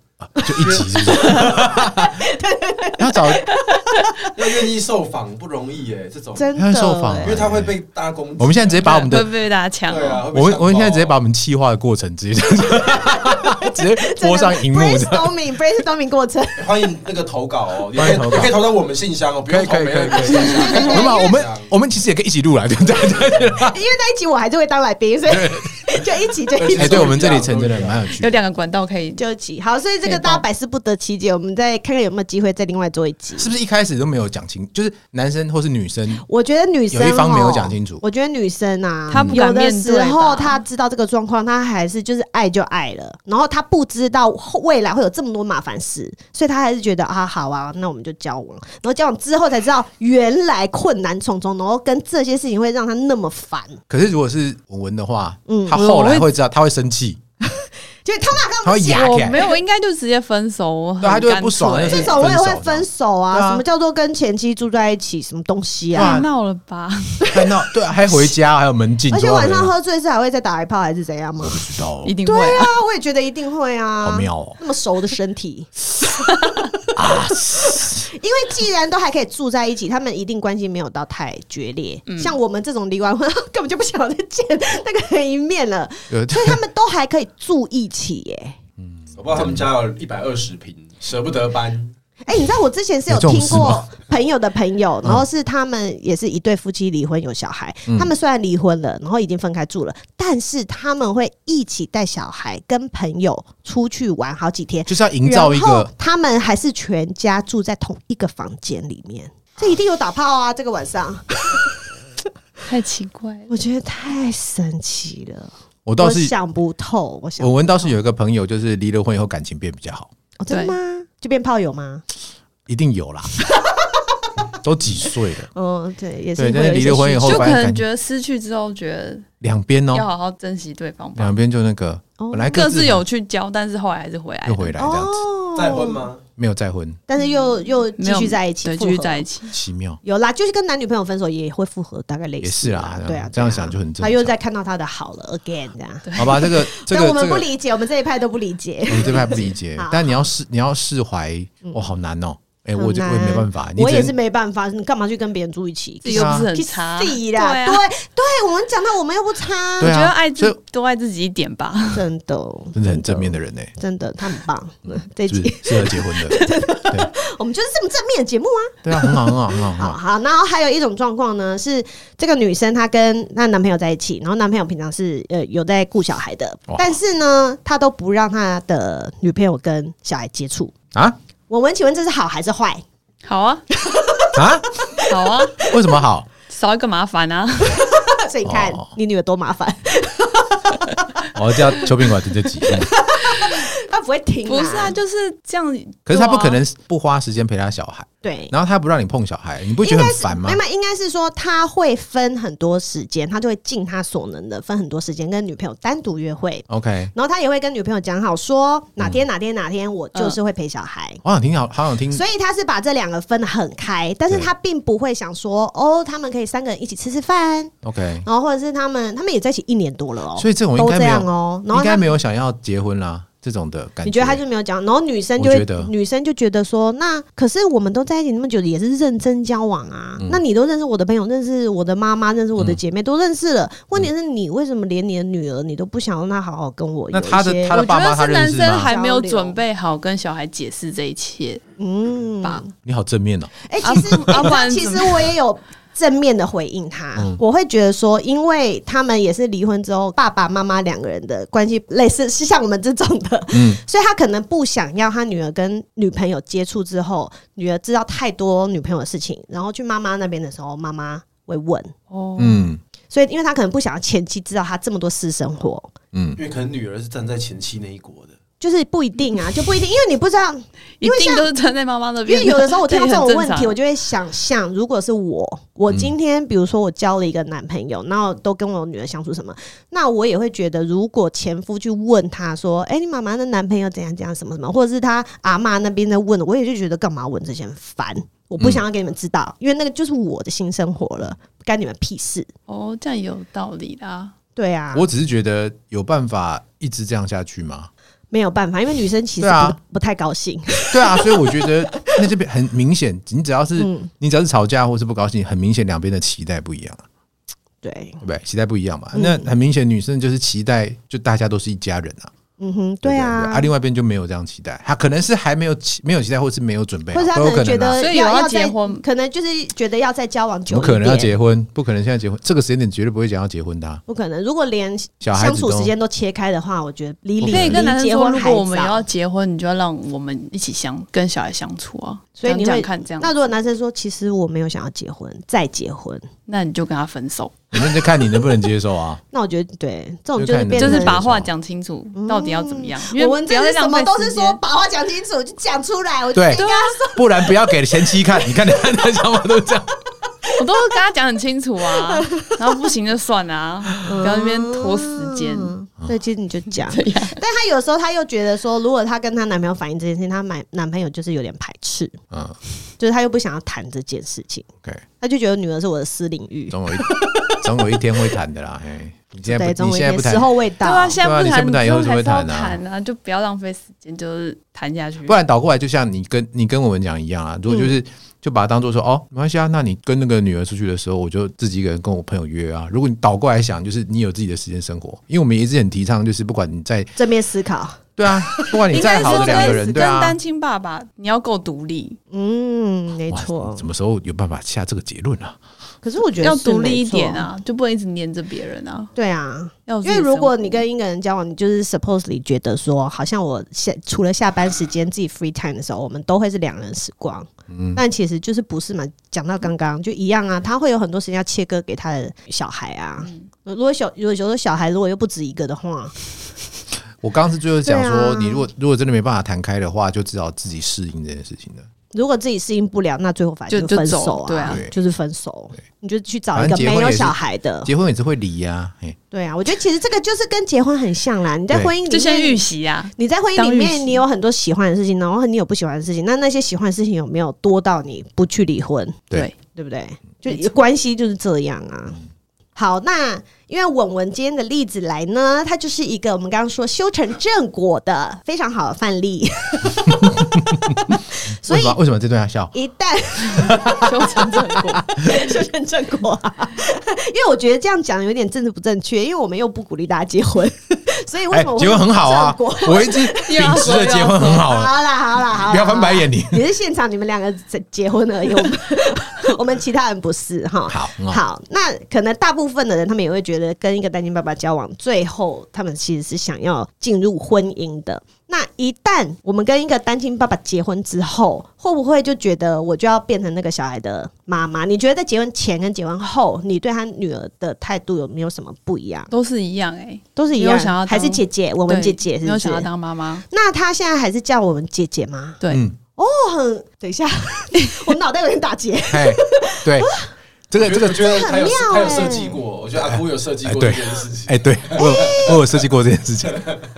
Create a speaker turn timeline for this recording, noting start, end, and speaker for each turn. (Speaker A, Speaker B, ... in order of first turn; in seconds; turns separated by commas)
Speaker A: 0.2-2.1, Speaker B: 0.4-4.2, Speaker A: 3.0-3.4, Speaker C: 4.3-6.6, Speaker B: 6.3-7.4, Speaker A: 6.5-7.8, Speaker C: 7.2-9.1, Speaker A: 8.4-9.3, Speaker D: 8.8-10.2, Speaker C: 9.9-11.2, Speaker A: 10.3-15.3, Speaker B: 13.1-16.9, Speaker C: 16.6-21.7, Speaker A: 17.9-18.6, Speaker A: 19.5-23.8, Speaker B: 20.2-21.4, Speaker B: 23.6-27.2, Speaker A: 25.3-25.7, Speaker C: 26.5-28.1, Speaker A: 26.8-28.4, Speaker D: 28.1-29.2, Speaker B: 29.2-33.5, Speaker D: 30.0-30.4, Speaker A: 33.4-36.2, Speaker B: 36.2-53.8, Speaker A: 36.9-38.0, Speaker D: 39.1-40.6, Speaker A: 39.1-39.4, Speaker A: 53.9-57.2, Speaker B: 55.5-55.8, Speaker D: 55.7-56.3, Speaker B: 57.6-59.5, Speaker A: 58.6-59.4, Speaker D: 58.9-62.2, Speaker A: 61.0-63.6, Speaker B: 61.9-66.2, Speaker A: 65.9-66.3, Speaker D: 65.9-67.3, Speaker A: 67.3-69.7, Speaker B: 69.1-71.7, Speaker A: 71.4-72.1, Speaker D: 72.0-72.8, Speaker B: 72.2-76.9, Speaker A: 74.0-74.6, Speaker A: 77.0-78.0, Speaker B: 77.7-88.6, Speaker D: 82.1-82.4, Speaker A: 86.1-86.6, Speaker A: 88.8-89.7, Speaker C: 89.1-91.9, Speaker B: 92.2-111.7, Speaker A: 93.1-93.8, Speaker A: 104.9-105.9, Speaker D: 112.7-113.5, Speaker B: 113.5-117.9, Speaker A: 115.8-116.3, Speaker A: 117.4-120.1, Speaker B: 120.4-122.0, Speaker D: 120.5-120.8, Speaker A: 122.7-123.3, Speaker A: 124.6-125.5, Speaker B: 125.5-127.5, Speaker A: 126.3-127.8, Speaker D: 127.2-129.3, Speaker A: 129.4-130.1, Speaker D: 129.9-131.4, Speaker A: 131.2-133.0, Speaker B: 132.2-132.6, Speaker D: 132.5-134.8, Speaker A: 134.4-135.2, Speaker B: 134.8-136.0, Speaker C: 135.5-136.2, Speaker A: 136.4-137.0, Speaker B: 137.1-139.2, Speaker D: 137.2-139.5, Speaker A: 139.5-140.0, Speaker B: 140.0-150.2, Speaker A: 142.4-144.3, Speaker D: 146.0-146.4, Speaker A: 146.2-147.5, Speaker A: 148.9-154.1, Speaker B: 152.8-160.0, Speaker D: 156.0-157.8, Speaker A: 156.1-156.5, Speaker A: 159.8-160.6, Speaker D: 159.8-162.1, Speaker B: 161.9-180.7, Speaker A: 162.7-163.7, Speaker A: 164.9-167.1, Speaker A: 168.8-170.0, Speaker A: 176.7-176.9, Speaker B: 181.5-182.8, Speaker D: 183.2-183.6, Speaker B: 183.8-184.4, Speaker A: 184.3-184.7, Speaker D: 185.1-185.6, Speaker A: 185.6-186.3, Speaker D: 186.5-187.8, Speaker B: 187.8-191.2, Speaker A: 188.4-188.9, Speaker A: 191.3-192.9, Speaker B: 192.6-194.9, Speaker D: 194.4-196.6, Speaker A: 196.1-200.6, Speaker B: 198.2-198.5, Speaker B: 199.8-211.2, Speaker A: 206.7-207.1, Speaker A: 211.2-212.2, Speaker B: 212.1-222.1, Speaker A: 217.8-218.2, Speaker A: 220.3-224.4, Speaker B: 224.0-237.8, Speaker A: 225.4-225.9, Speaker A: 237.1-238.9, Speaker D: 237.7-241.6, Speaker B: 238.7-239.6, Speaker B: 241.8-242.7, Speaker A: 242.8-244.5, Speaker B: 243.7-261.9, Speaker D: 243.8-245.3, Speaker A: 253.5-253.8, Speaker D: 262.1-262.6, Speaker A: 262.4-262.8, Speaker B: 263.1-265.9, Speaker A: 266.1-266.4, Speaker C: 266.4-268.4, Speaker B: 268.6-271.5, Speaker D: 271.0-273.8, Speaker B: 272.2-292.5, Speaker D: 292.7-294.3, Speaker B: 294.6-295.1, Speaker A: 294.9-297.9, Speaker B: 298.3-302.1, Speaker A: 299.4-299.8, Speaker A: 300.9-307.0, Speaker B: 303.8-304.1, Speaker B: 307.8-308.2, Speaker A: 308.2-312.3, Speaker B: 309.1-309.5, Speaker B: 312.6-313.7, Speaker A: 313.0-318.0, Speaker B: 317.1-321.3, Speaker D: 318.0-319.0, Speaker A: 320.7-324.0, Speaker B: 324.1-329.0, Speaker A: 325.2-325.9, Speaker A: 327.4-327.9, Speaker D: 327.5-333.3, Speaker B: 332.4-336.3, Speaker D: 336.5-337.5, Speaker A: 337.7-339.2, Speaker B: 339.3-341.2, Speaker A: 340.4-341.5, Speaker D: 340.8-344.6, Speaker B: 342.1-347.5, Speaker A: 346.3-349.9, Speaker D: 346.5-347.0, Speaker D: 350.6-355.7, Speaker B: 352.0-352.5, Speaker B: 354.0-362.2, Speaker D: 356.9-357.4, Speaker A: 362.3-362.6, Speaker B: 363.0-364.7, Speaker B: 365.2-367.6, Speaker A: 366.7-370.5, Speaker B: 369.5-371.2, Speaker D: 370.8-375.4, Speaker A: 371.2-372.8, Speaker A: 375.2-387.1, Speaker B: 377.7-377.9, Speaker B: 387.1-390.0, Speaker A: 388.2-390.4, Speaker D: 388.9-392.2, Speaker B: 392.3-393.8, Speaker A: 393.3-395.6, Speaker B: 396.0-397.5, Speaker D: 396.4-399.1, Speaker B: 399.1-416.1, Speaker D: 399.9-400.8, Speaker A: 407.7-408.0, Speaker A: 417.2-421.9, Speaker B: 417.9-418.6, Speaker B: 422.1-427.9, Speaker D: 423.7-424.8, Speaker A: 424.6-424.9, Speaker A: 426.5-429.2, Speaker B: 429.3-432.6, Speaker D: 432.1-434.2, Speaker B: 433.1-442.2, Speaker B: 442.8-452.0, Speaker A: 451.6-452.7, Speaker B: 452.7-463.6, Speaker A: 453.5-454.0, Speaker D: 454.0-455.0, Speaker A: 461.5-464.9, Speaker D: 463.4-464.7, Speaker B: 464.6-489.3, Speaker A: 465.5-466.6, Speaker A: 470.9-471.4, Speaker D: 489.3-493.4, Speaker B: 490.4-492.9, Speaker B: 493.5-495.6, Speaker A: 495.7-496.0, Speaker B: 496.1-500.3, Speaker D: 497.8-498.1, Speaker A: 499.1-500.1, Speaker A: 500.7-501.4, Speaker C: 500.8-505.8, Speaker B: 501.2-502.6, Speaker A: 502.9-506.6, Speaker B: 505.0-505.5, Speaker C: 506.5-506.8